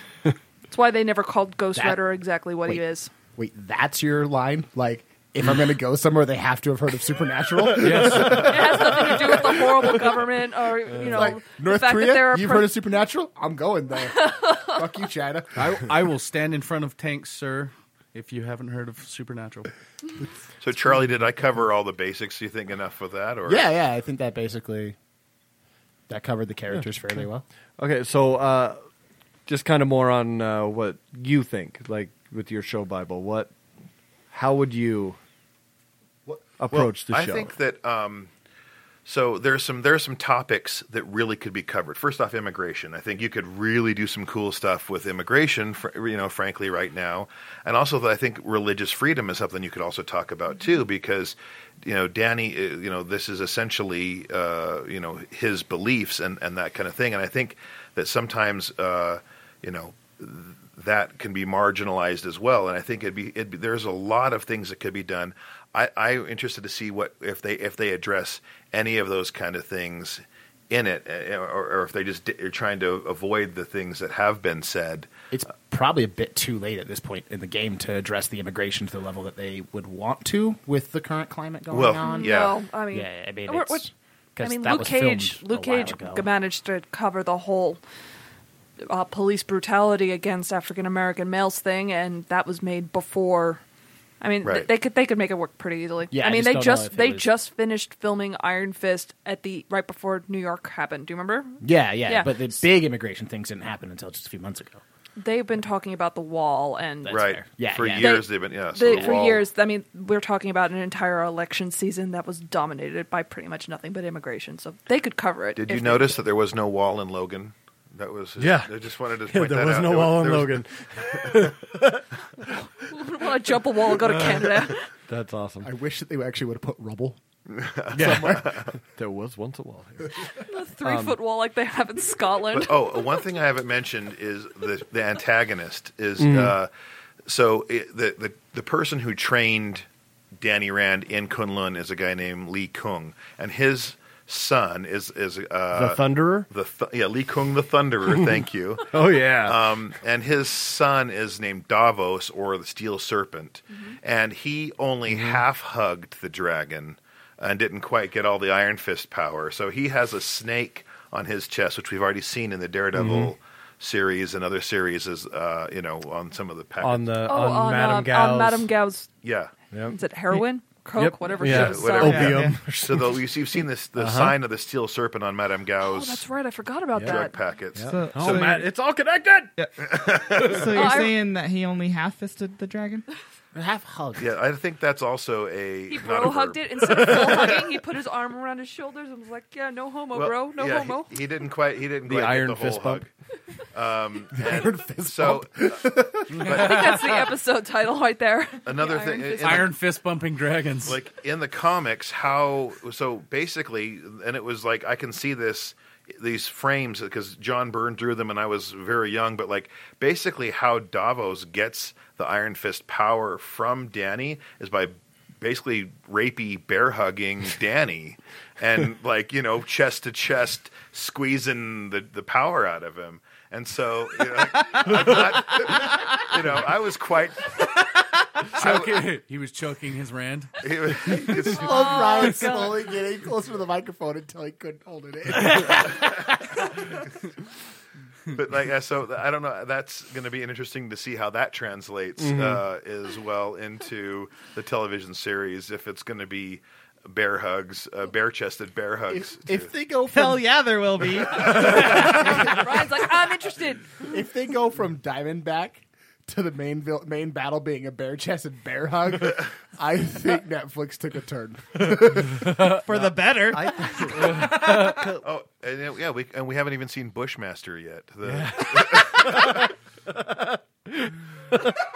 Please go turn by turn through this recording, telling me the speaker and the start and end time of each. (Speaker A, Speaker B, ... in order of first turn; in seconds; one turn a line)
Speaker A: 0.7-3.1
Speaker B: 1.8-2.0
Speaker B: 3.4-9.7
Speaker C: 7.8-8.8
Speaker A: 8.3-12.7
Speaker B: 11.0-15.6
Speaker A: 14.2-14.7
Speaker C: 15.6-19.7
Speaker D: 20.6-23.7
Speaker B: 23.5-25.0
Speaker B: 26.1-27.4
Speaker E: 26.7-27.2
Speaker E: 27.8-28.8
Speaker E: 29.5-33.5
Speaker E: 34.3-35.2
Speaker E: 36.6-37.5
Speaker D: 36.7-38.3
Speaker D: 39.1-75.1
Speaker B: 75.3-86.3
Speaker D: 81.7-82.6
Speaker A: 82.0-83.9
Speaker A: 84.4-87.8
Speaker A: 88.9-93.6
Speaker A: 94.2-102.6
Speaker D: 94.4-94.7
Speaker B: 96.1-97.3
Speaker B: 101.6-104.8
Speaker A: 105.2-107.3
Speaker B: 107.0-108.3
Speaker D: 107.1-109.4
Speaker A: 107.9-116.2
Speaker B: 108.9-109.2
Speaker D: 115.6-120.6
Speaker E: 118.4-118.7
Speaker E: 119.3-122.0
Speaker A: 122.5-124.8
Speaker E: 125.1-125.7
Speaker B: 125.6-127.2
Speaker D: 127.5-128.7
Speaker E: 128.0-130.1
Speaker A: 130.4-132.7
Speaker E: 130.8-131.2
Speaker D: 132.5-136.7
Speaker E: 136.2-136.6
Speaker D: 137.3-139.9
Speaker D: 140.4-148.9
Speaker E: 145.7-146.5
Speaker E: 148.9-149.7
Speaker D: 149.4-167.1
Speaker E: 155.1-155.4
Speaker E: 162.9-163.3
Speaker E: 166.8-168.7
Speaker A: 167.3-169.1
Speaker D: 169.2-169.5
Speaker E: 169.7-170.4
Speaker A: 169.9-172.4
Speaker E: 171.0-173.3
Speaker D: 171.4-176.2
Speaker F: 172.0-172.6
Speaker E: 174.0-174.3
Speaker A: 175.8-177.4
Speaker D: 177.0-178.3
Speaker E: 177.8-179.5
Speaker F: 177.9-178.7
Speaker D: 179.8-180.8
Speaker F: 180.4-183.1
Speaker A: 180.7-181.1
Speaker B: 183.5-184.3
Speaker D: 184.2-187.6
Speaker A: 185.9-191.1
Speaker D: 190.2-193.1
Speaker E: 192.1-193.0
Speaker D: 193.7-197.0
Speaker B: 194.3-196.4
Speaker C: 196.3-197.1
Speaker A: 196.5-199.7
Speaker D: 198.7-199.7
Speaker C: 199.4-201.0
Speaker D: 200.8-227.7
Speaker C: 228.5-231.4
Speaker D: 228.6-228.9
Speaker D: 230.6-232.2
Speaker B: 231.2-236.8
Speaker A: 231.5-232.7
Speaker D: 238.3-249.7
Speaker E: 242.2-242.6
Speaker B: 249.1-250.4
Speaker F: 250.1-252.6
Speaker A: 251.7-254.0
Speaker B: 252.0-252.6
Speaker B: 254.1-262.4
Speaker F: 262.8-265.1
Speaker E: 262.9-265.2
Speaker C: 264.4-264.7
Speaker D: 265.2-269.6
Speaker E: 268.2-271.7